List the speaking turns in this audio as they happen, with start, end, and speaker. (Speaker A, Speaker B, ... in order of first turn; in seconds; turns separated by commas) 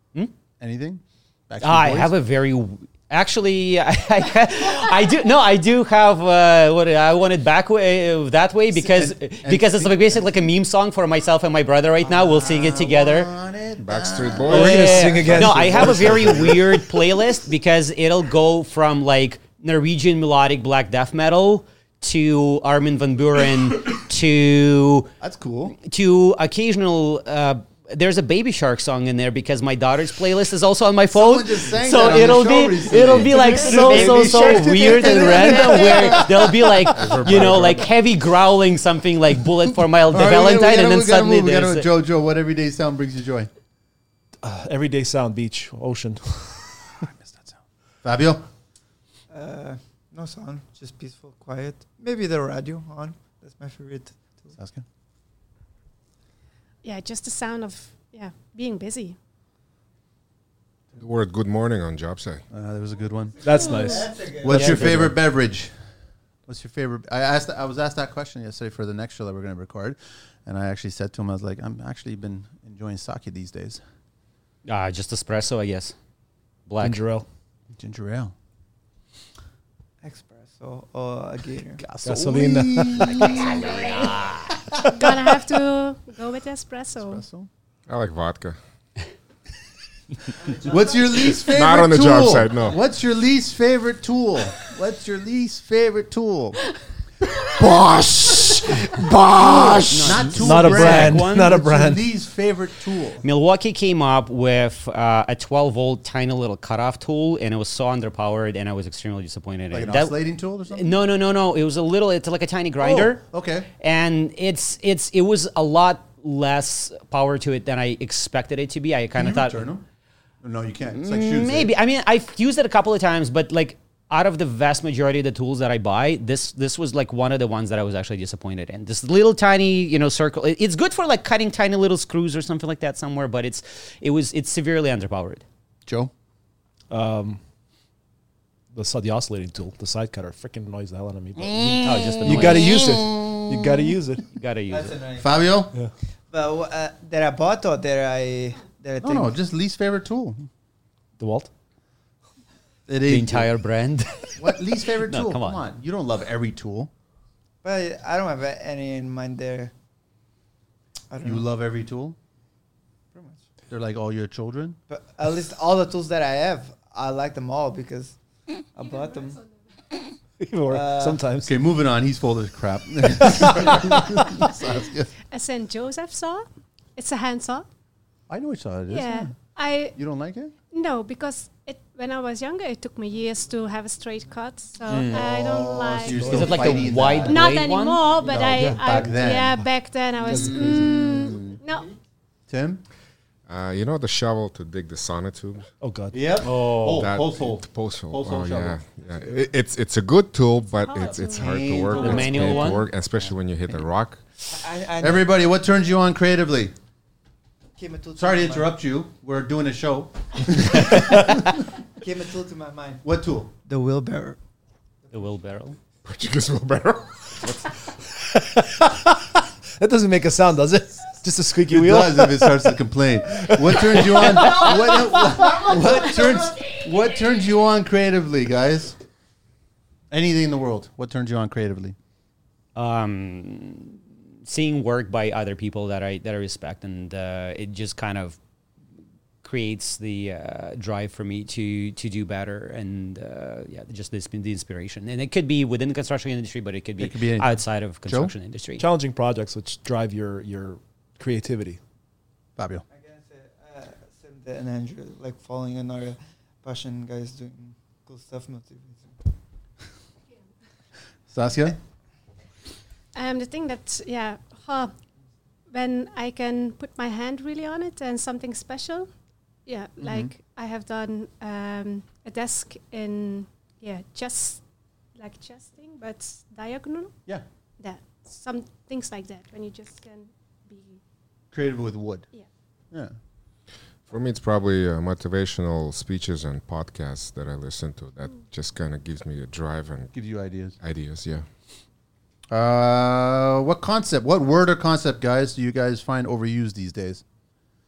Speaker A: 0.6-2.1, Speaker B: 1.6-13.3, Speaker A: 8.7-10.4, Speaker A: 12.0-16.8, Speaker C: 13.8-15.6, Speaker D: 14.5-16.5, Speaker B: 14.5-25.1, Speaker A: 25.2-25.8, Speaker B: 25.8-41.9, Speaker A: 31.1-36.7, Speaker D: 33.7-34.9, Speaker C: 36.9-37.9, Speaker A: 37.2-37.6, Speaker A: 40.1-43.5, Speaker D: 44.4-46.9, Speaker A: 47.0-48.5, Speaker E: 49.3-54.5, Speaker A: 54.6-54.8, Speaker F: 56.8-59.2, Speaker C: 61.0-62.4, Speaker A: 62.5-63.8, Speaker D: 63.4-65.1, Speaker F: 63.5-64.1, Speaker E: 63.9-64.7, Speaker A: 64.3-65.7, Speaker B: 64.5-65.1, Speaker A: 66.5-73.8, Speaker B: 74.6-75.9, Speaker B: 76.7-77.0, Speaker D: 76.8-77.2, Speaker A: 77.8-78.3, Speaker E: 80.0-81.8, Speaker A: 81.8-84.2, Speaker D: 82.0-83.3, Speaker B: 83.2-84.5, Speaker F: 84.8-87.2, Speaker A: 87.0-87.5, Speaker C: 87.9-88.6, Speaker E: 90.4-90.8, Speaker A: 90.6-96.6, Speaker C: 91.5-92.8, Speaker C: 98.3-98.6, Speaker B: 99.6-101.6, Speaker D: 99.8-102.0, Speaker A: 100.0-103.2, Speaker B: 103.2-110.2, Speaker A: 109.7-111.0, Speaker B: 110.7-113.2, Speaker A: 112.8-113.7, Speaker B: 113.8-119.7, Speaker A: 119.1-119.8, Speaker A: 120.4-121.7, Speaker B: 120.9-135.4, Speaker A: 135.8-136.1, Speaker D: 136.9-137.4, Speaker D: 138.7-144.2, Speaker A: 141.4-143.9, Speaker B: 141.5-143.0, Speaker B: 144.3-145.0, Speaker E: 144.7-145.4, Speaker A: 145.2-145.7, Speaker E: 146.3-149.3, Speaker A: 149.0-150.5, Speaker D: 151.2-151.5, Speaker A: 152.9-153.5, Speaker B: 153.0-155.6, Speaker A: 154.4-156.9, Speaker E: 157.6-159.7, Speaker E: 161.1-161.4, Speaker A: 161.2-162.2, Speaker E: 163.1-163.4, Speaker A: 163.7-164.8, Speaker E: 164.9-168.2, Speaker E: 168.7-169.4, Speaker D: 170.4-171.5, Speaker E: 170.7-171.2, Speaker A: 171.4-175.1, Speaker D: 173.2-174.2, Speaker F: 175.3-177.7, Speaker A: 178.3-179.3, Speaker F: 178.9-180.0, Speaker A: 179.9-180.5, Speaker F: 180.7-186.7, Speaker B: 184.9-185.2, Speaker A: 185.1-187.4, Speaker D: 186.1-186.9, Speaker B: 186.2-188.1, Speaker F: 187.2-191.9, Speaker A: 188.2-189.6, Speaker D: 188.6-189.3, Speaker D: 190.2-191.0, Speaker A: 190.3-191.6, Speaker A: 192.5-192.8, Speaker C: 193.5-195.7, Speaker D: 195.8-196.2, Speaker A: 196.1-198.8, Speaker B: 196.4-197.1, Speaker C: 196.9-204.2, Speaker F: 200.8-202.8, Speaker A: 201.3-202.7, Speaker B: 201.9-202.8, Speaker E: 204.5-205.2, Speaker A: 205.0-206.7, Speaker E: 207.8-208.7, Speaker A: 208.2-211.4, Speaker E: 212.0-213.0, Speaker A: 213.0-213.5, Speaker E: 213.7-214.4, Speaker B: 215.1-215.8, Speaker C: 216.0-217.5, Speaker D: 218.2-222.8, Speaker A: 221.7-229.0, Speaker D: 223.3-224.3, Speaker A: 230.1-231.9, Speaker B: 232.7-238.4, Speaker B: 239.4-248.8, Speaker A: 247.0-247.5, Speaker A: 248.1-248.3, Speaker D: 248.8-251.8, Speaker A: 252.6-252.8, Speaker E: 252.9-259.2, Speaker A: 261.3-261.8, Speaker F: 263.1-264.9, Speaker F: 265.7-269.1, Speaker F: 269.6-274.6, Speaker A: 270.0-270.3, Speaker F: 275.1-277.1, Speaker F: 277.8-281.0, Speaker A: 281.5-282.2, Speaker C: 284.1-290.1, Speaker A: 290.1-290.8, Speaker C: 290.8-291.4, Speaker A: 292.5-297.2